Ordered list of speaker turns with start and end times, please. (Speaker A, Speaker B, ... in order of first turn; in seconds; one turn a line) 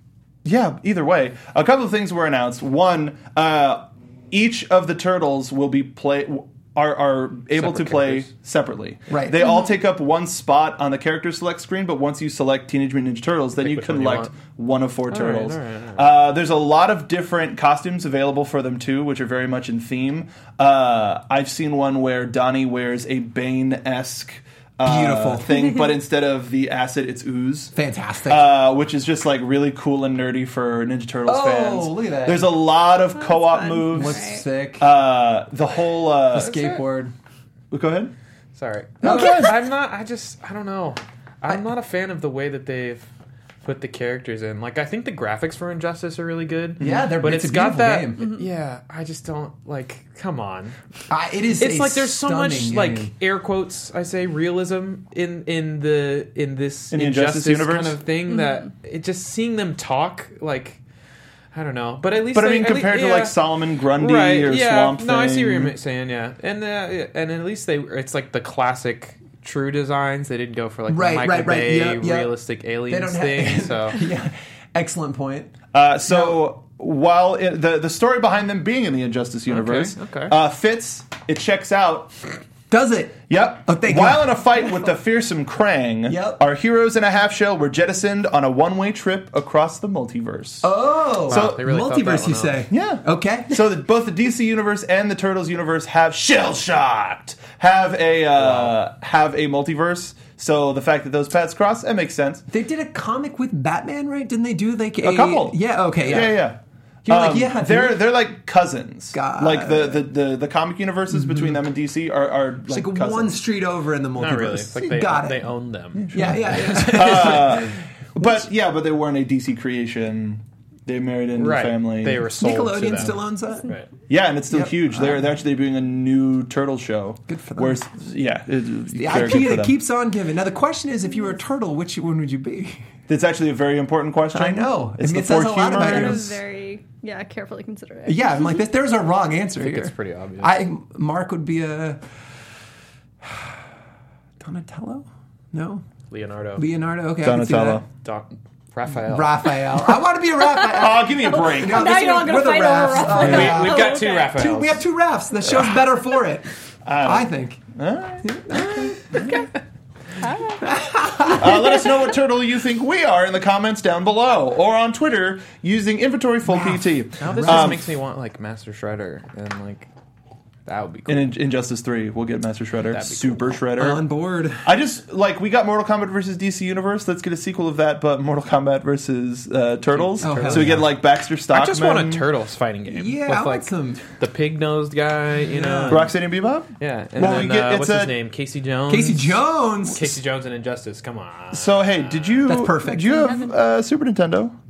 Speaker A: 0.4-27.7
Speaker B: 7.5-8.3
Speaker C: 9.1-9.5
Speaker D: 9.4-9.7
Speaker B: 13.6-14.3
Speaker B: 15.1-16.1
Speaker C: 24.8-25.7
Speaker C: 27.7-28.5
Speaker A: 28.2-34.2
Speaker C: 31.2-32.5
Speaker D: 33.1-34.4
Speaker C: 33.9-34.9
Speaker A: 34.8-36.6
Speaker C: 36.3-37.1
Speaker B: 36.4-36.8
Speaker A: 37.7-38.1
Speaker B: 38.5-43.0
Speaker A: 39.0-39.5
Speaker C: 39.0-39.5
Speaker B: 43.6-50.8
Speaker A: 46.8-47.1
Speaker C: 46.8-48.3
Speaker C: 51.1-53.1
Speaker B: 51.6-60.8
Speaker A: 56.9-58.0
Speaker B: 61.5-63.4
Speaker A: 62.3-65.7
Speaker B: 63.9-74.0
Speaker C: 70.9-72.3
Speaker C: 72.9-75.5
Speaker A: 75.7-82.1
Speaker C: 76.1-76.4
Speaker B: 79.5-80.3
Speaker C: 82.7-84.4
Speaker A: 83.3-90.8
Speaker C: 86.0-86.4
Speaker C: 90.6-93.6
Speaker B: 91.3-92.7
Speaker A: 91.3-91.6
Speaker A: 92.7-102.4
Speaker B: 98.4-98.7
Speaker C: 102.5-106.5
Speaker A: 105.0-113.4
Speaker C: 107.0-108.1
Speaker C: 109.1-110.0
Speaker C: 112.7-115.5
Speaker B: 114.2-117.6
Speaker A: 116.0-122.2
Speaker C: 116.1-118.4
Speaker B: 121.3-123.9
Speaker C: 122.2-123.7
Speaker A: 124.1-129.8
Speaker C: 124.5-125.3
Speaker C: 127.3-127.9
Speaker C: 128.9-132.9
Speaker A: 133.1-136.3
Speaker C: 134.3-136.3
Speaker D: 135.7-138.5
Speaker C: 138.0-142.0
Speaker B: 139.6-140.6
Speaker C: 144.4-145.8
Speaker B: 146.1-146.7
Speaker C: 146.6-147.8
Speaker A: 147.2-147.8
Speaker B: 148.0-149.7
Speaker C: 148.9-156.5
Speaker A: 150.7-152.3
Speaker D: 151.3-154.5
Speaker B: 153.1-154.8
Speaker A: 153.2-153.5
Speaker A: 156.8-158.3
Speaker C: 157.0-157.6
Speaker C: 158.2-159.3
Speaker A: 159.2-159.4
Speaker D: 160.2-161.4
Speaker C: 160.6-161.6
Speaker A: 161.3-167.8
Speaker C: 166.4-167.8
Speaker B: 167.2-169.9
Speaker B: 170.7-171.3
Speaker A: 171.1-174.0
Speaker B: 172.9-173.6
Speaker C: 173.7-174.6
Speaker A: 174.6-182.2
Speaker B: 179.9-180.9
Speaker C: 180.2-180.9
Speaker B: 181.5-186.1
Speaker C: 182.9-184.0
Speaker C: 185.5-186.1
Speaker A: 185.9-188.1
Speaker B: 186.8-192.4
Speaker C: 188.9-190.2
Speaker A: 191.5-194.5
Speaker C: 192.4-193.4
Speaker D: 193.0-193.5